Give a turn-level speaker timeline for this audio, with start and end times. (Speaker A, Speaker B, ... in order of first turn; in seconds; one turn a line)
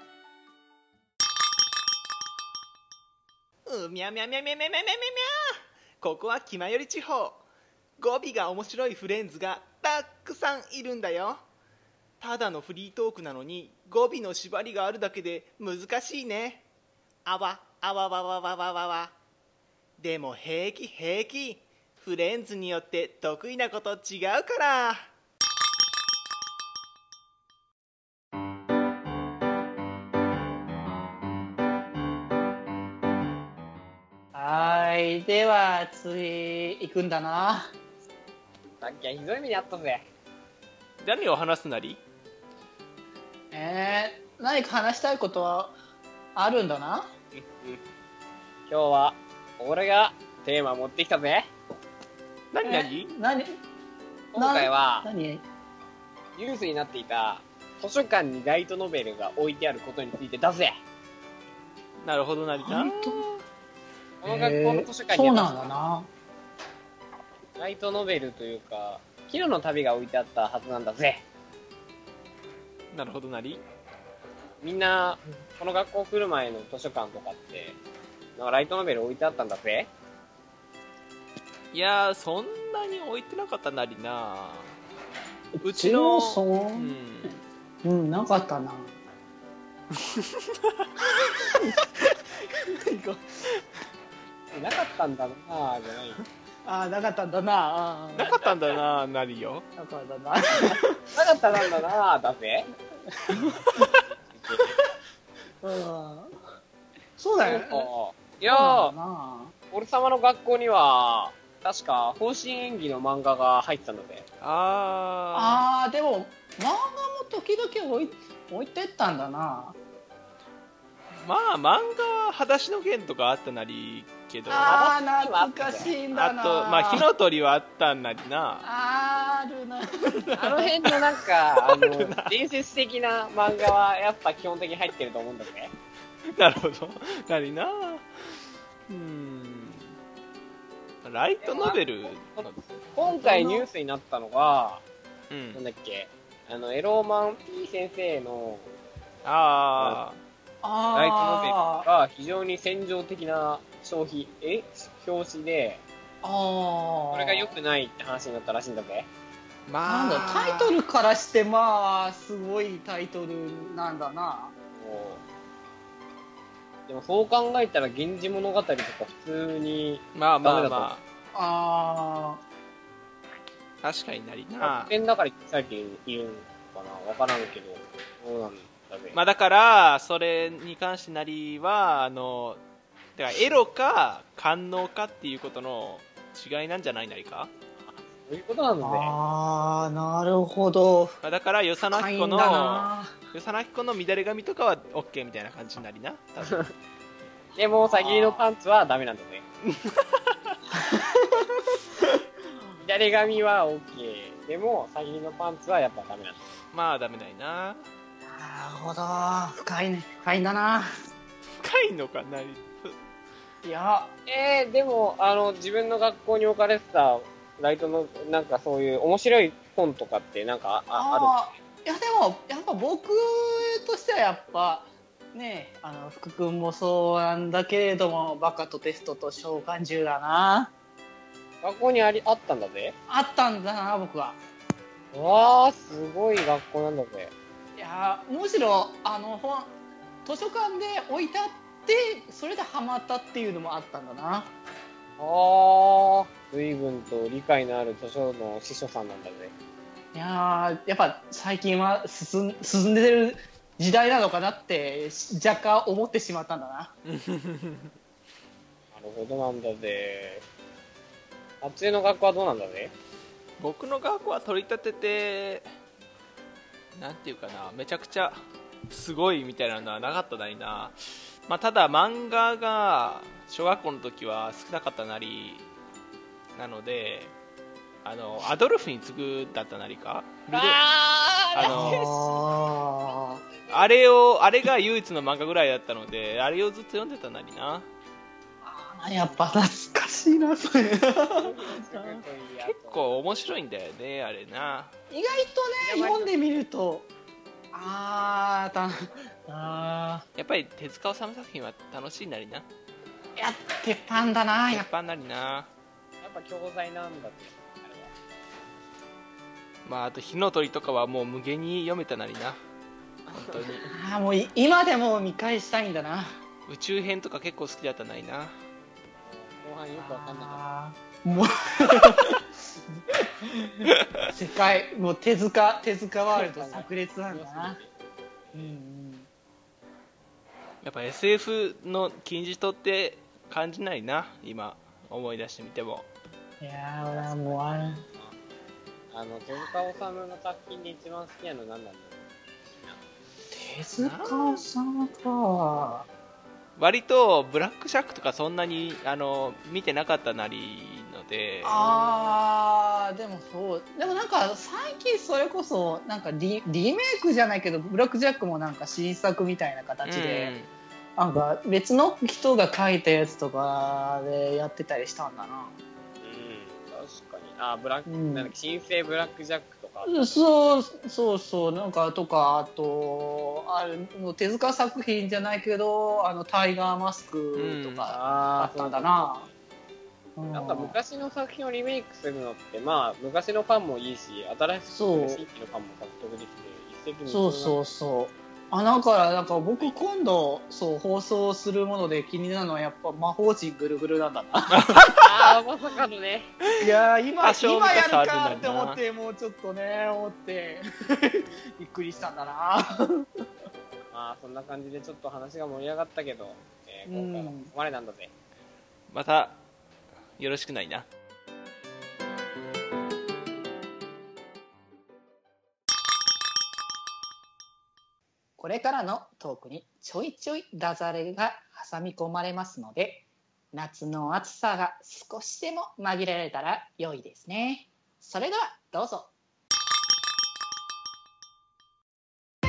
Speaker A: 3.6-7.4
Speaker A: 8.0-11.4
Speaker A: 12.2-16.6
Speaker A: 17.2-19.1
Speaker A: 20.0-25.1
Speaker B: 34.3-37.7
Speaker C: 38.8-40.0
Speaker A: 41.0-42.0
Speaker B: 43.5-45.8
Speaker B: 46.3-47.1
Speaker C: 47.3-47.8
Speaker C: 48.7-51.5
Speaker A: 52.5-53.1
Speaker B: 52.6-53.5
Speaker C: 54.3-55.1
Speaker B: 54.4-55.4
Speaker C: 56.4-60.8
Speaker A: 62.0-63.4
Speaker B: 62.6-63.2
Speaker C: 64.2-65.6
Speaker B: 64.2-66.1
Speaker C: 67.6-71.2
Speaker A: 72.9-73.6
Speaker C: 74.6-77.8
Speaker C: 78.4-79.9
Speaker A: 81.7-84.8
Speaker B: 85.6-87.3
Speaker A: 85.6-87.4
Speaker B: 87.8-88.9
Speaker A: 89.9-90.9
Speaker B: 91.0-93.6
Speaker C: 94.5-96.2
Speaker B: 96.6-98.6
Speaker A: 98.1-99.7
Speaker B: 99.8-101.3
Speaker C: 101.1-102.7
Speaker B: 103.1-103.9
Speaker C: 103.8-104.7
Speaker B: 105.6-106.3
Speaker B: 107.2-107.9
Speaker C: 107.4-108.9
Speaker B: 108.5-109.5
Speaker C: 109.7-114.2
Speaker A: 114.4-115.6
Speaker B: 115.3-119.8
Speaker A: 121.2-124.8
Speaker B: 124.5-127.1
Speaker C: 124.7-125.9
Speaker A: 126.1-128.6
Speaker B: 128.6-130.8
Speaker C: 130.3-135.7
Speaker A: 131.6-132.3
Speaker A: 136.3-138.0
Speaker A: 138.9-139.9
Speaker A: 141.0-142.8
Speaker C: 141.4-141.8
Speaker C: 142.3-144.8
Speaker B: 143.0-143.7
Speaker A: 145.3-145.6
Speaker C: 145.5-148.7
Speaker A: 149.2-150.2
Speaker B: 150.6-151.9
Speaker C: 150.9-155.8
Speaker B: 156.2-157.5
Speaker C: 157.1-159.1
Speaker A: 159.7-160.7
Speaker B: 159.8-164.5
Speaker C: 164.7-165.2
Speaker C: 166.9-170.9
Speaker A: 170.1-171.0
Speaker B: 171.3-172.4
Speaker A: 173.8-174.9
Speaker C: 174.6-179.2
Speaker A: 179.1-182.6
Speaker A: 183.2-187.5
Speaker C: 187.8-189.1
Speaker B: 188.8-191.2
Speaker A: 191.2-196.6
Speaker B: 191.8-193.1
Speaker C: 196.4-196.7
Speaker C: 197.6-199.4
Speaker A: 197.9-198.4
Speaker A: 199.7-200.5
Speaker B: 200.7-202.2
Speaker C: 202.8-206.4
Speaker A: 206.7-207.9
Speaker B: 208.2-210.9
Speaker A: 211.6-213.0
Speaker B: 213.6-214.1
Speaker C: 214.3-221.4
Speaker B: 220.9-230.7
Speaker C: 231.6-232.9
Speaker B: 233.1-234.4
Speaker C: 235.1-237.3
Speaker B: 237.8-239.7
Speaker B: 240.2-244.5
Speaker C: 245.2-249.5
Speaker B: 250.1-256.9
Speaker A: 257.0-257.9
Speaker C: 258.9-260.4
Speaker C: 261.6-262.9
Speaker A: 263.6-265.6
Speaker A: 266.9-275.6
Speaker A: 276.5-277.3
Speaker A: 278.0-280.8
Speaker C: 280.5-282.5
Speaker A: 281.5-282.0
Speaker B: 281.6-283.4
Speaker A: 283.7-287.9
Speaker B: 288.6-292.2
Speaker C: 291.3-293.2
Speaker A: 292.6-294.9
Speaker B: 295.1-297.1
Speaker C: 295.8-296.3
Speaker B: 297.7-300.2
Speaker A: 300.4-302.6
Speaker B: 303.4-304.9
Speaker A: 304.7-305.7
Speaker C: 306.2-308.1
Speaker A: 309.9-312.6
Speaker C: 313.3-313.9
Speaker A: 313.3-313.8
Speaker B: 313.9-316.3
Speaker A: 316.7-318.5
Speaker C: 319.2-320.6
Speaker B: 319.9-327.8
Speaker C: 326.3-327.9
Speaker B: 328.5-329.3
Speaker A: 330.8-336.1
Speaker B: 336.6-338.0
Speaker C: 337.1-338.4
Speaker C: 339.1-343.0
Speaker B: 343.5-346.1
Speaker A: 344.0-344.6
Speaker A: 346.8-351.9
Speaker B: 351.6-360.5
Speaker A: 360.0-360.7
Speaker B: 361.2-365.7
Speaker C: 366.2-370.2
Speaker B: 368.1-368.5
Speaker B: 370.0-379.4
Speaker A: 377.6-378.1
Speaker C: 378.1-379.5
Speaker B: 380.4-380.9
Speaker C: 380.5-387.8
Speaker B: 384.9-385.4
Speaker B: 387.3-395.1
Speaker A: 394.7-395.5
Speaker C: 395.2-396.5
Speaker B: 396.8-403.3
Speaker A: 397.4-399.0
Speaker C: 404.1-408.3
Speaker B: 407.1-407.7
Speaker A: 409.1-409.6
Speaker A: 410.4-411.1
Speaker B: 418.6-429.3